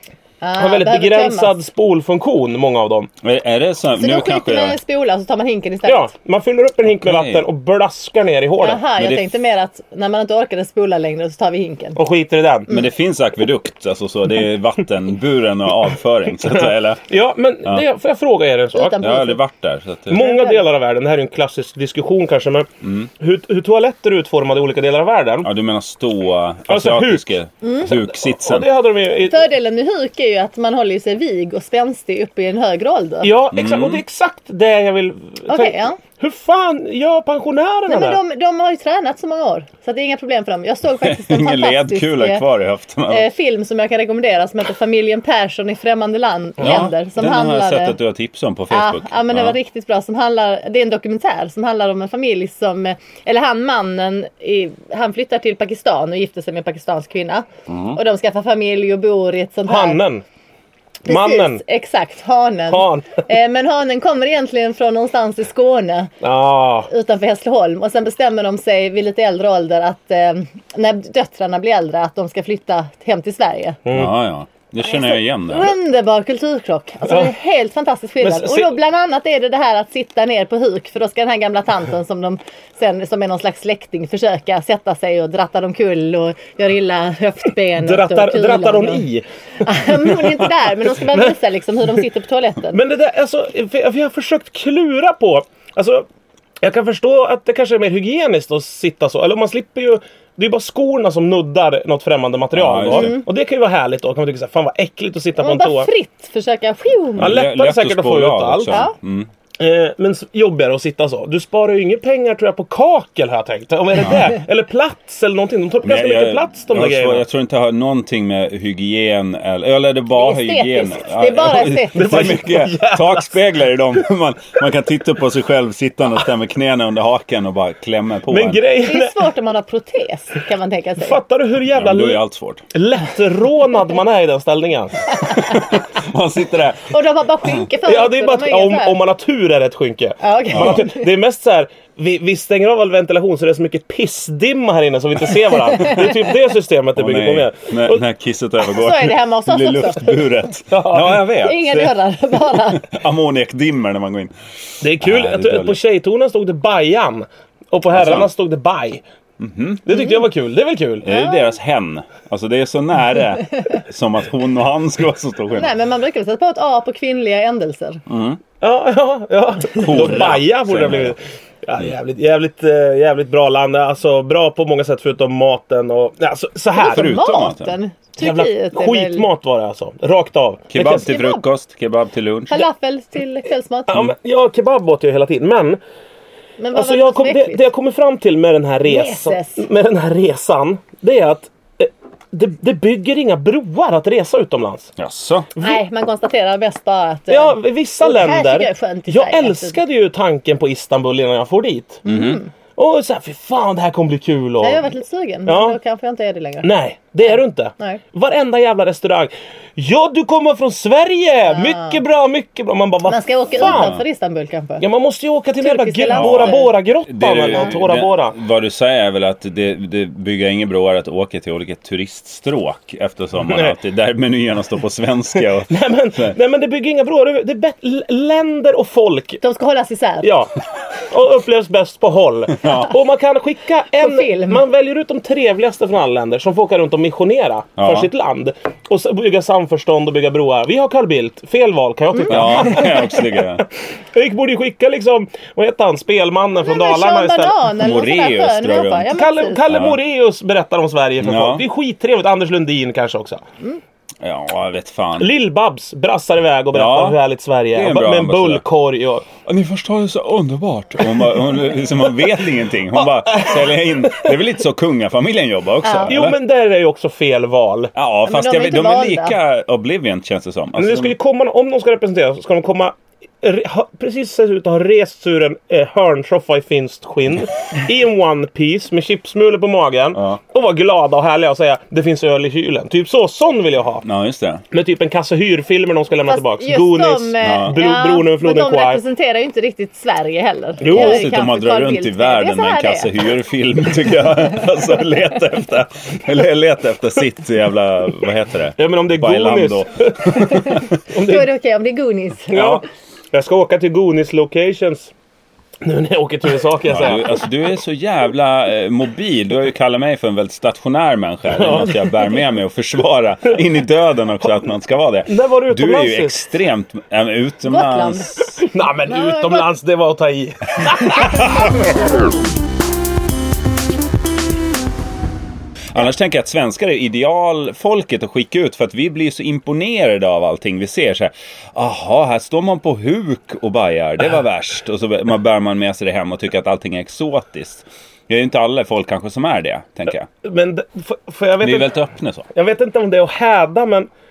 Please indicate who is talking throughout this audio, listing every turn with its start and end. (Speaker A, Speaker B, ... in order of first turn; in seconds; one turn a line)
Speaker A: 0.4-1.6
Speaker B: 0.6-3.1
Speaker C: 3.2-4.8
Speaker A: 4.0-6.1
Speaker B: 5.9-8.8
Speaker C: 7.0-7.5
Speaker A: 8.6-12.0
Speaker C: 9.0-9.3
Speaker B: 12.0-12.7
Speaker C: 12.7-17.0
Speaker B: 17.1-19.1
Speaker A: 18.7-19.4
Speaker C: 19.0-20.2
Speaker B: 20.1-22.7
Speaker A: 20.1-20.6
Speaker C: 22.8-23.1
Speaker B: 23.2-25.5
Speaker C: 25.4-28.7
Speaker B: 26.7-27.3
Speaker A: 27.6-27.9
Speaker B: 28.1-29.4
Speaker A: 29.2-33.3
Speaker B: 33.2-38.2
Speaker C: 33.5-34.0
Speaker A: 35.5-36.0
Speaker A: 37.9-42.4
Speaker C: 41.0-43.2
Speaker A: 43.1-48.0
Speaker C: 46.6-49.6
Speaker A: 48.7-60.0
Speaker C: 57.7-58.0
Speaker B: 59.7-60.2
Speaker B: 61.0-61.6
Speaker A: 61.1-66.1
Speaker B: 62.7-63.2
Speaker B: 66.2-66.9
Speaker A: 66.9-73.8
Speaker B: 73.9-74.1
Speaker C: 73.9-75.7
Speaker A: 74.8-89.0
Speaker B: 78.2-78.8
Speaker B: 87.8-90.4
Speaker A: 89.6-92.8
Speaker B: 91.1-91.4
Speaker B: 92.7-96.1
Speaker B: 96.6-105.9
Speaker C: 102.5-103.2
Speaker A: 102.9-103.2
Speaker A: 105.4-107.4
Speaker B: 107.2-108.8
Speaker C: 107.2-109.3
Speaker A: 108.7-108.9
Speaker B: 109.6-117.2
Speaker C: 114.0-114.3
Speaker C: 115.8-128.6
Speaker A: 120.1-122.3
Speaker B: 121.9-123.3
Speaker B: 128.3-129.2
Speaker A: 128.8-131.2
Speaker B: 131.0-132.2
Speaker C: 131.7-132.7
Speaker B: 132.7-135.1
Speaker A: 135.3-135.6
Speaker C: 135.3-136.9
Speaker A: 136.9-139.0
Speaker B: 137.8-148.0
Speaker A: 140.2-141.1
Speaker C: 140.5-140.8
Speaker C: 146.9-154.3
Speaker A: 148.8-150.1
Speaker B: 150.7-151.3
Speaker A: 151.4-152.9
Speaker B: 154.8-159.0
Speaker C: 155.0-155.8
Speaker C: 157.9-158.3
Speaker C: 159.4-159.8
Speaker B: 159.9-161.1
Speaker A: 159.9-160.2
Speaker C: 161.1-165.7
Speaker A: 161.1-161.5
Speaker A: 165.5-168.0
Speaker C: 168.1-168.4
Speaker B: 168.6-177.2
Speaker C: 169.8-171.2
Speaker A: 176.8-179.3
Speaker C: 176.8-177.8
Speaker B: 178.2-181.1
Speaker C: 180.7-182.7
Speaker A: 180.8-181.4
Speaker A: 182.5-183.9
Speaker B: 183.9-185.8
Speaker A: 186.6-187.7
Speaker B: 186.7-194.9
Speaker A: 188.9-189.6
Speaker C: 195.0-195.5
Speaker A: 195.6-199.8
Speaker B: 197.3-202.1
Speaker C: 202.1-202.4
Speaker A: 202.1-202.5
Speaker B: 202.8-204.9
Speaker A: 204.6-206.7
Speaker B: 205.5-205.8
Speaker B: 206.6-213.9
Speaker A: 207.3-208.0
Speaker A: 211.5-212.0
Speaker A: 213.1-214.8
Speaker C: 213.6-214.0
Speaker B: 214.8-218.4
Speaker A: 215.6-216.8
Speaker C: 216.1-226.4
Speaker B: 223.5-223.8
Speaker B: 225.7-229.4
Speaker A: 229.4-230.3
Speaker B: 230.2-230.5
Speaker B: 231.1-247.5
Speaker C: 232.5-232.9
Speaker A: 234.0-234.6
Speaker C: 237.8-238.1
Speaker A: 242.1-242.4
Speaker C: 242.3-243.7
Speaker A: 246.6-249.7
Speaker C: 247.8-249.1
Speaker B: 249.1-253.4
Speaker C: 251.2-251.6
Speaker C: 254.2-255.3
Speaker B: 255.2-259.3
Speaker C: 256.7-257.2
Speaker C: 257.7-258.6
Speaker C: 259.4-266.4
Speaker B: 263.0-264.3
Speaker A: 265.8-266.1
Speaker B: 266.1-267.9
Speaker C: 267.9-271.1
Speaker A: 268.3-269.3
Speaker B: 270.8-284.1
Speaker C: 284.0-284.6
Speaker B: 284.7-289.0
Speaker A: 286.3-293.1
Speaker C: 287.4-287.8
Speaker B: 290.8-291.3
Speaker C: 290.8-300.9
Speaker B: 298.8-301.5
Speaker A: 301.2-302.8
Speaker B: 302.5-305.1
Speaker C: 302.6-302.8
Speaker B: 305.8-307.4
Speaker C: 306.9-318.6
Speaker B: 311.5-312.1
Speaker B: 315.3-316.4
Speaker A: 317.7-319.7
Speaker B: 318.6-321.5
Speaker A: 321.1-321.5
Speaker C: 321.2-321.7
Speaker C: 325.9-340.3
Speaker B: 340.4-341.9
Speaker C: 341.6-342.5
Speaker B: 342.5-344.1